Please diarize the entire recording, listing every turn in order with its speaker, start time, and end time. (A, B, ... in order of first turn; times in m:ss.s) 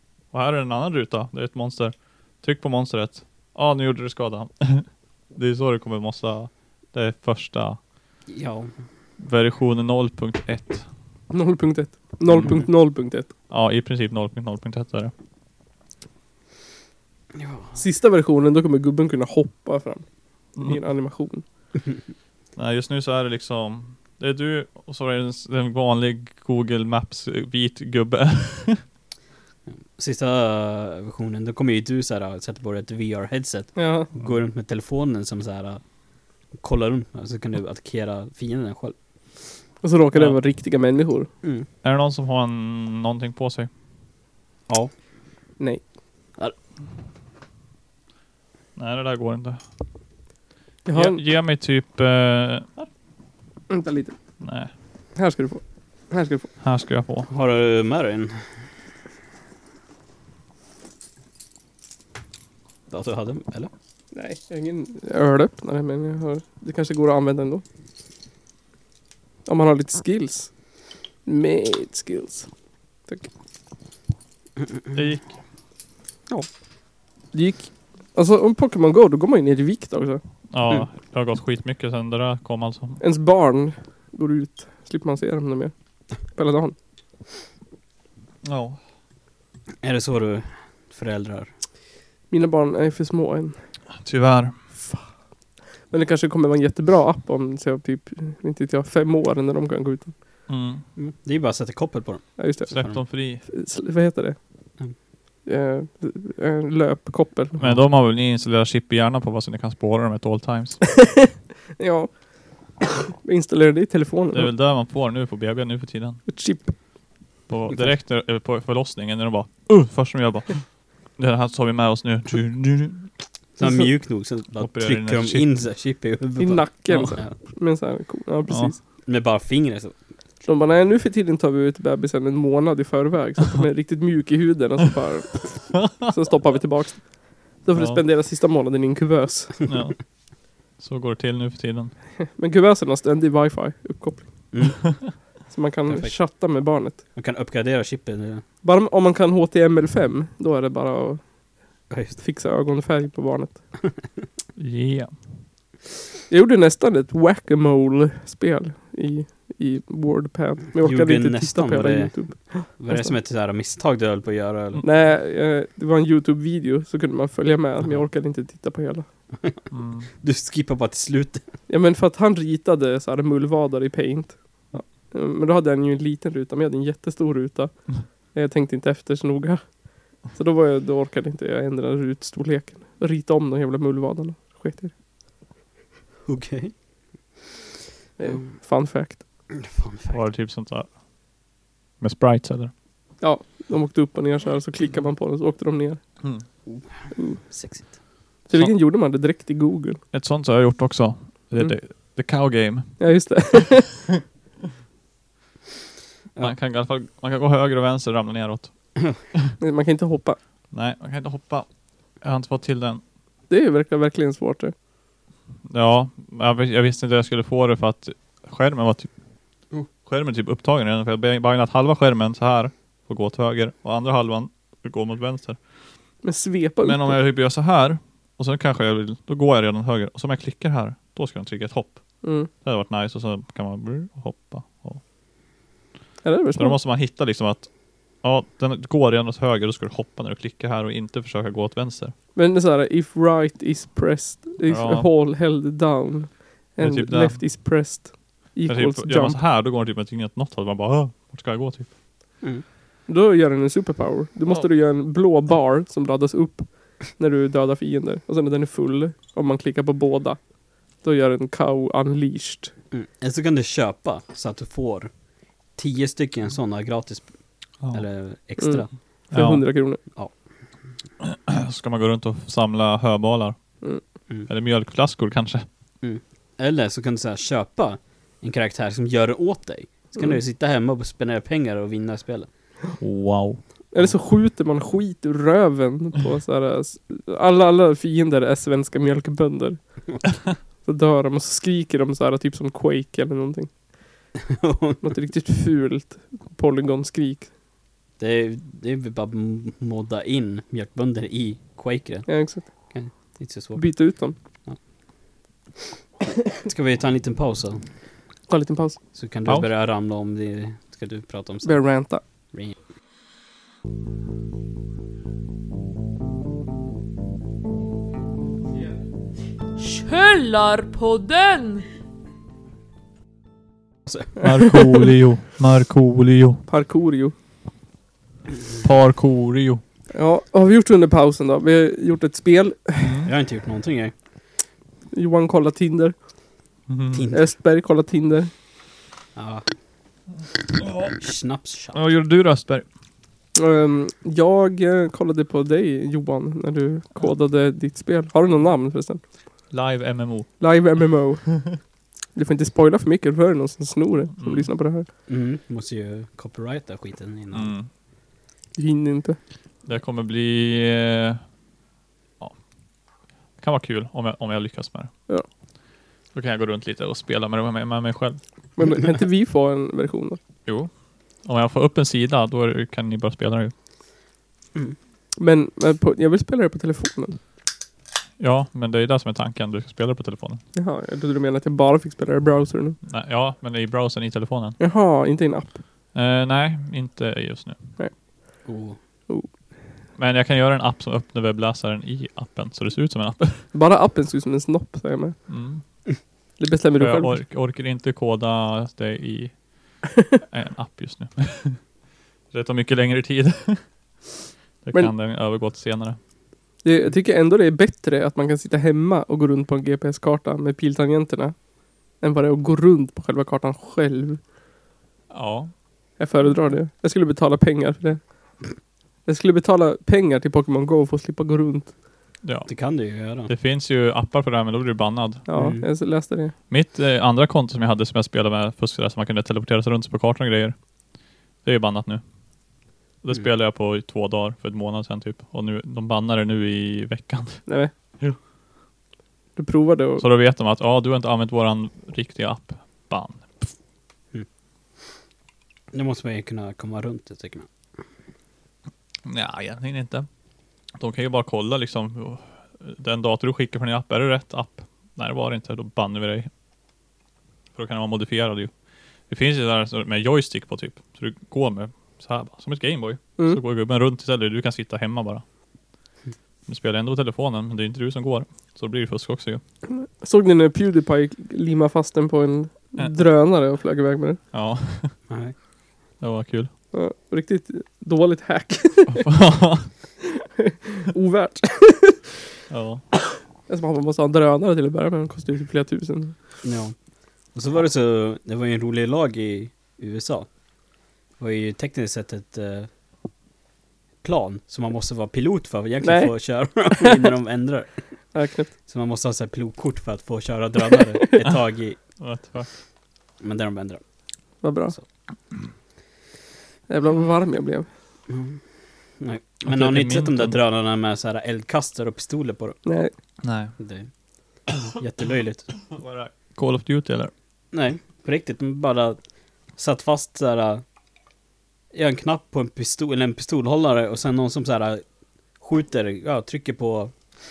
0:00.3-0:07.8 A
0:08.3-0:08.7 B
0:09.2-0:10.9 A
0:11.3-0:13.3 C
0:13.5-0:15.1 A
0:17.3-0:17.8 B
0:17.8-0:20.0 C
0:20.6-0:21.4 C
0:22.6-0:28.8 A
0:29.9-0:35.8 B
0:33.8-0:34.1 C
0:36.5-0:39.0 B
0:39.8-0:41.3 C
0:41.8-0:43.7 A
0:44.7-0:44.9 B
0:48.8-0:49.6 A
0:50.8-0:51.2 C
0:50.9-0:52.9 A
0:53.7-0:54.1 C
0:54.4-0:54.7 A
0:55.2-0:56.5 C
0:56.6-0:57.3 A
0:57.3-0:58.5 B
1:02.9-1:03.7 B
1:04.1-1:07.6 C
1:09.4-1:10.6 C
1:11.2-1:12.5 C
1:14.9-1:15.3 A
1:17.3-1:20.2 C
1:20.5-1:23.0 A
1:23.0-1:25.7 C
1:26.2-1:26.7 C
1:28.4-1:28.8 A
1:29.8-1:31.5 B
1:32.3-1:33.6 C
1:34.0-1:34.6 A
1:34.8-1:35.1 C
1:35.9-1:40.1 C
1:40.5-1:40.8 A
1:41.0-1:43.0 B
1:42.4-1:42.7 C
1:42.7-1:43.4 A
1:43.4-1:44.4 C
1:45.4-1:47.6 C
1:47.6-1:50.8 A
1:51.0-1:52.1 C
1:52.8-1:54.5 C
1:54.3-1:56.2 A
1:56.3-1:56.7 C
1:57.5-2:03.1 A
2:03.6-2:07.3 B
2:04.6-2:05.5 A
2:06.4-2:08.8 C
2:09.0-2:10.0 B
2:10.4-2:19.7 C
2:17.7-2:18.0 A
2:19.7-2:20.0 A
2:20.8-2:21.9 A
2:22.3-2:24.5 C
2:24.5-2:25.1 B
2:25.5-2:27.0 C
2:25.9-2:26.2 B
2:27.1-2:28.4 B
2:28.6-2:31.3 C
2:31.9-2:32.2 B
2:32.2-2:33.6 C
2:34.6-2:35.2 A
2:36.3-2:43.1 C
2:40.8-2:44.8 B
2:44.8-2:49.0 C
2:49.7-2:50.1 A
2:50.1-2:51.5 B
2:51.7-3:04.9 C
3:06.2-3:06.7 B
3:08.2-3:09.2 C
3:09.5-3:10.2 B
3:10.1-3:10.9 A
3:12.0-3:12.7 A
3:13.2-3:16.0 C
3:16.6-3:17.9 B
3:17.1-3:17.4 C
3:18.5-3:20.0 C
3:20.1-3:23.0 A
3:23.0-3:24.1 C
3:26.4-3:29.5 A
3:29.6-3:30.4 C
3:30.7-3:31.7 A
3:32.2-3:33.0 A
3:33.5-3:34.7 C
3:35.7-3:39.1 A
3:40.0-3:45.6 A
3:46.2-3:47.2 C
3:46.8-3:55.0 A
3:52.2-3:52.5 C
3:56.2-3:56.8 C
3:56.6-3:57.7 A
3:58.2-4:02.1 A
4:02.3-4:09.4 C
4:04.7-4:05.1 A
4:06.8-4:07.4 A
4:08.7-4:11.9 A
4:13.1-4:22.7 C
4:22.9-4:25.1 B
4:25.8-4:27.3 B
4:27.9-4:28.9 B
4:28.6-4:30.0 C
4:29.3-4:29.6 A
4:31.2-4:33.6 A
4:34.5-4:35.6 A
4:36.0-4:42.5 B
4:43.0-4:43.6 A
4:43.9-4:50.1 C
4:50.8-4:53.7 C
4:54.5-4:55.0 B
4:55.0-4:57.5 C
4:58.2-5:04.8 B
5:02.3-5:02.7 C
5:03.8-5:04.4 C
5:06.6-5:07.8 B
5:08.5-5:09.0 C
5:09.1-5:11.8 B
5:11.6-5:12.2 C
5:19.8-5:21.8 D
5:24.4-5:26.6 A
5:24.4-5:25.0 C
5:26.7-5:27.3 C
5:28.8-5:29.8 A
5:30.1-5:33.2 C
5:33.0-5:33.3 A
5:33.2-5:34.1 B
5:35.1-5:36.1 C
5:36.9-5:37.2 A
5:37.1-5:37.5 B
5:37.3-5:38.5 C
5:39.3-5:39.7 B
5:40.8-5:41.2 A
5:41.1-5:42.0 B
5:41.9-5:42.8 A
5:43.6-5:49.2 C
5:49.7-5:50.6 A
5:50.6-5:51.8 C
5:52.3-5:55.0 C
5:54.4-5:54.7 A
5:55.3-5:57.7 B
5:57.5-5:57.9 A
5:58.8-5:59.4 C
5:59.8-6:01.4 A
6:03.6-6:05.1 A
6:06.3-6:08.4 A
6:08.8-6:10.4 C
6:10.6-6:10.9 A
6:11.4-6:13.7 A
6:15.4-6:17.4 C
6:18.4-6:20.6 A
6:20.7-6:23.0 C
6:23.0-6:24.8 A
6:24.8-6:25.8 C
6:26.1-6:27.8 A
6:28.6-6:29.0 B
6:30.2-6:33.7 A
6:33.7-6:35.4 C
6:35.5-6:35.8 A
6:36.6-6:37.4 C
6:37.0-6:39.6 A
6:40.5-6:41.8 A
6:42.5-6:43.8 A
6:44.8-6:46.2 A
6:46.8-6:51.5 C
6:52.2-6:54.4 C
6:55.3-6:55.7 A
6:56.2-6:58.2 C
6:59.2-7:01.9 C
7:02.4-7:02.7 A
7:02.7-7:03.5 B
7:03.4-7:05.4 A
7:05.5-7:06.5 C
7:05.6-7:05.8 B
7:06.7-7:10.8 A
7:11.6-7:12.2 A
7:13.2-7:17.7 A
7:17.7-7:17.9 C
7:19.6-7:20.2 C
7:20.2-7:23.7 A
7:25.9-7:27.7 B
7:29.2-7:30.3 A
7:31.0-7:36.5 A
7:37.7-7:38.7 A
7:39.3-7:45.4 A
7:46.7-7:49.6 A
7:49.9-7:54.4 C
7:54.5-7:55.2 A
7:55.3-7:55.5 B
7:56.2-7:56.7 A
7:56.9-7:59.3 C
7:59.1-7:59.9 A
8:00.4-8:02.2 C
8:02.7-8:03.0 A
8:03.7-8:06.4 C
8:06.6-8:07.0 B
8:07.5-8:10.5 B
8:11.4-8:12.9 B
8:14.2-8:17.9 B
8:16.0-8:17.3 C
8:18.3-8:18.7 C
8:18.9-8:22.0 B
8:22.2-8:22.7 A
8:23.4-8:24.0 B
8:24.6-8:24.9 C
8:26.9-8:27.9 C
8:28.3-8:28.6 B
8:29.2-8:32.8 B
8:29.6-8:30.6 A
8:32.8-8:33.1 C
8:33.4-8:33.7 A
8:33.8-8:34.1 B
8:34.8-8:35.7 B
8:35.9-8:37.3 A
8:37.7-8:39.2 B
8:39.8-8:40.8 B
8:41.9-8:45.0 B
8:45.6-8:47.1 B